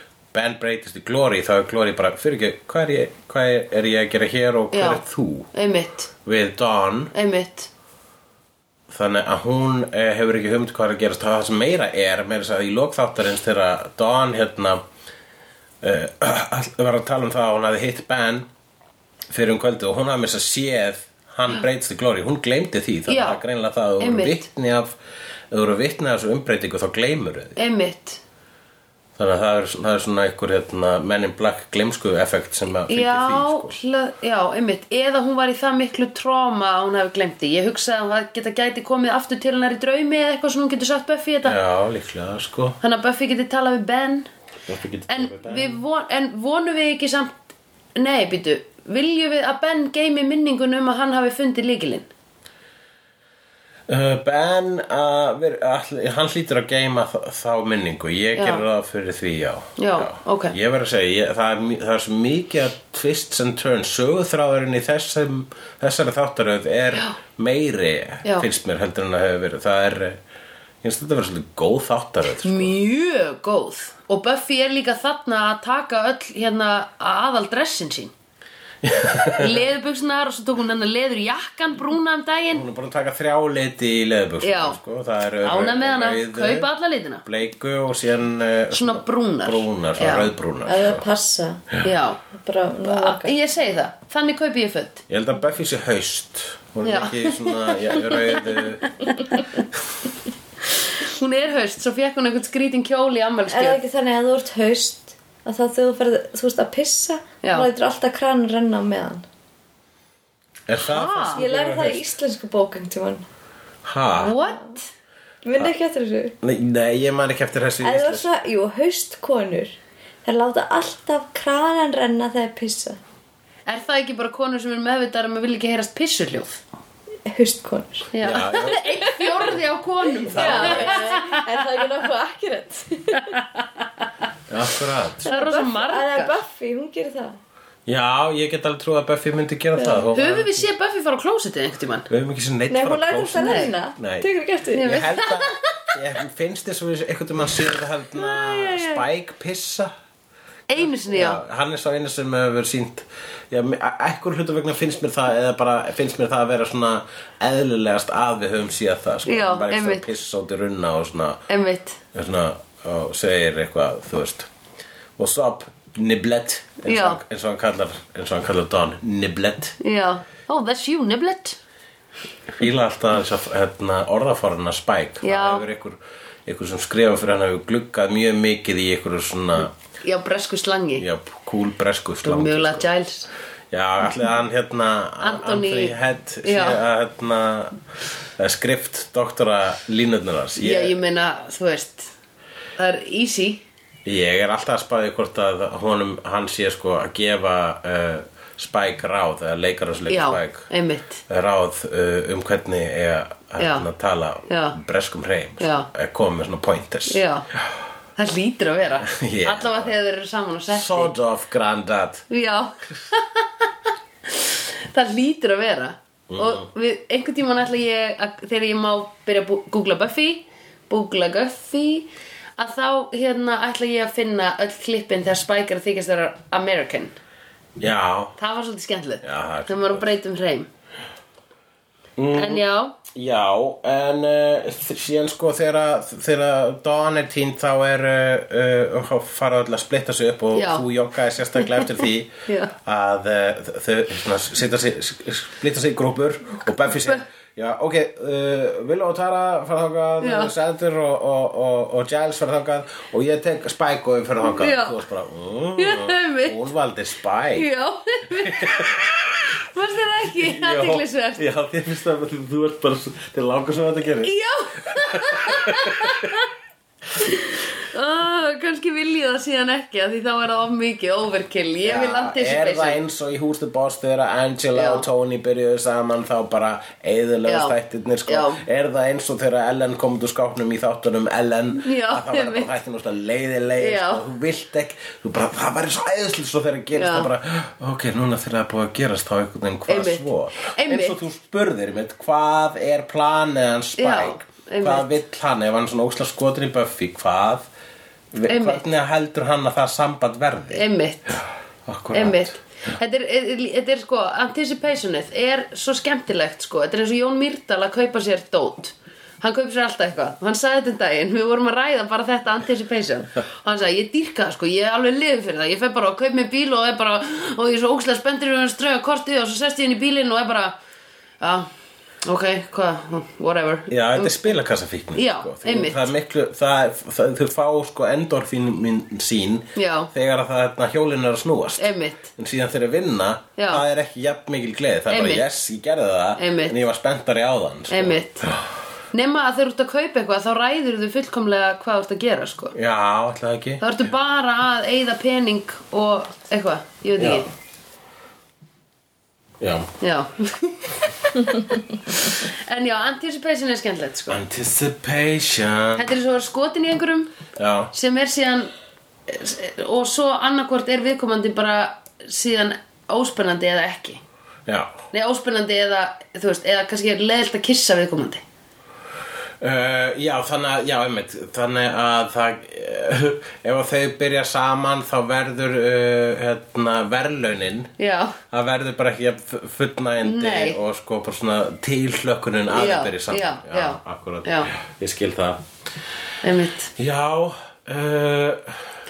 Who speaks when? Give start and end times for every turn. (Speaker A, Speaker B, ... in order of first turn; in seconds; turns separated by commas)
Speaker A: 0.3-5.5, Speaker B: 4.7-6.1, Speaker A: 6.2-7.1, Speaker B: 7.1-7.7, Speaker A: 8.9-14.8, Speaker A: 15.8-18.5, Speaker A: 19.3-24.9, Speaker B: 23.1-23.4, Speaker B: 24.0-24.4, Speaker A: 25.5-27.6, Speaker B: 27.6-28.2, Speaker A: 29.2-33.8, Speaker B: 32.9-41.6, Speaker A: 41.4-42.8, Speaker B: 42.8-44.3, Speaker A: 44.7-45.8, Speaker B: 45.1-47.4, Speaker B: 48.0-52.1, Speaker A: 53.9-70.2, Speaker B: 58.4-58.6, Speaker B: 59.8-60.6, Speaker A: 70.8-72.8, Speaker B: 72.4-78.1, Speaker A: 78.8-79.7, Speaker B: 79.0-82.7, Speaker A: 82.5-86.7, Speaker B: 84.4-84.8, Speaker B: 85.4-87.2, Speaker A: 87.2-91.0, Speaker B: 88.7-90.3, Speaker C: 90.7-91.8, Speaker B: 91.8-92.2, Speaker C: 92.3-93.3, Speaker B: 92.8-95.0, Speaker A: 95.1-99.1, Speaker B: 96.8-98.5, Speaker B: 99.0-99.6, Speaker B: 101.0-103.8, Speaker C: 103.5-109.2, Speaker B: 107.4-107.7, Speaker A: 110.7-112.0, Speaker B: 110.8-111.4, Speaker C: 111.3-113.2, Speaker A: 113.8-114.3, Speaker B: 114.1-114.9, Speaker C: 114.3-114.8, Speaker C: 115.4-116.4, Speaker A: 116.4-118.3, Speaker C: 117.8-123.0, Speaker B: 123.7-126.7, Speaker C: 127.3-128.1, Speaker B: 128.1-131.7, Speaker A: 128.2-128.9, Speaker C: 128.7-129.5, Speaker C: 130.3-133.4, Speaker A: 130.3-131.0, Speaker B: 133.2-134.1, Speaker A: 134.5-135.3, Speaker C: 135.2-137.4, Speaker B: 135.3-136.3, Speaker A: 137.9-140.7, Speaker C: 139.8-140.1, Speaker B: 140.1-142.1, Speaker A: 142.1-149.9, Speaker C: 142.7-145.0, Speaker B: 143.4-143.7, Speaker B: 144.7-145.9, Speaker B: 148.1-149.0, Speaker B: 150.7-151.4, Speaker A: 150.8-161.4, Speaker B: 159.3-160.1, Speaker B: 161.5-162.0, Speaker A: 162.1-164.5, Speaker A: 165.2-169.8, Speaker B: 166.8-167.2, Speaker B: 169.8-171.6, Speaker A: 172.6-179.7, Speaker B: 175.2-175.6, Speaker B: 180.0-181.1, Speaker A: 181.0-182.9, Speaker B: 182.2-183.3, Speaker A: 183.7-187.8, Speaker B: 185.2-186.8, Speaker A: 188.4-190.9, Speaker B: 190.6-192.1, Speaker B: 192.8-193.7, Speaker A: 194.1-200.7, Speaker B: 200.1-201.2, Speaker A: 201.3-207.8, Speaker B: 203.6-203.9, Speaker B: 204.5-204.8, Speaker B: 205.6-205.9, Speaker B: 207.1-207.5, Speaker B: 208.2-211.1, Speaker A: 209.0-209.9, Speaker A: 210.7-212.3, Speaker B: 212.3-213.7, Speaker B: 214.3-227.2, Speaker A: 216.3-216.7, Speaker A: 227.8-228.4, Speaker B: 228.4-230.7, Speaker A: 229.2-230.1, Speaker A: 232.2-257.7, Speaker B: 232.3-233.0, Speaker B: 240.5-240.9, Speaker B: 241.6-241.9, Speaker B: 242.5-242.7, Speaker B: 246.9-247.2, Speaker B: 250.2-250.5, Speaker B: 254.4-255.0, Speaker B: 255.8-256.6, Speaker B: 257.6-259.0, Speaker A: 258.4-259.5, Speaker B: 259.6-261.4, Speaker A: 260.4-266.3, Speaker B: 264.2-266.5, Speaker B: 267.1-273.0, Speaker A: 271.8-297.7, Speaker B: 274.7-275.1, Speaker B: 277.5-277.8, Speaker B: 278.3-278.6, Speaker B: 281.8-282.7, Speaker B: 283.8-284.2, Speaker B: 286.9-287.3, Speaker B: 289.9-291.2, Speaker B: 294.0-295.2, Speaker A: 298.3-302.6, Speaker B: 298.5-298.8, Speaker B: 300.7-301.4, Speaker B: 302.1-320.8, Speaker B: 321.4-321.7, Speaker B: 322.2-324.5, Speaker A: 323.9-338.7, Speaker B: 325.1-326.1, Speaker B: 329.8-330.1, Speaker B: 331.8-332.3, Speaker B: 333.6-333.8, Speaker B: 335.1-335.4, Speaker B: 336.4-336.8, Speaker B: 337.9-338.5, Speaker B: 339.1-342.8, Speaker A: 342.7-343.8, Speaker B: 343.8-347.5, Speaker A: 347.2-347.5, Speaker A: 349.6-349.9, Speaker B: 350.0-354.4, Speaker A: 354.3-356.1, Speaker B: 356.0-357.4, Speaker A: 357.6-357.9, Speaker B: 357.9-358.7, Speaker B: 359.3-364.2, Speaker A: 364.7-365.0, Speaker B: 365.1-368.4, Speaker A: 369.6-377.9, Speaker B: 378.0-378.4, Speaker A: 378.5-385.6, Speaker B: 380.2-380.8, Speaker B: 382.7-384.7, Speaker B: 386.4-386.9, Speaker A: 387.0-388.8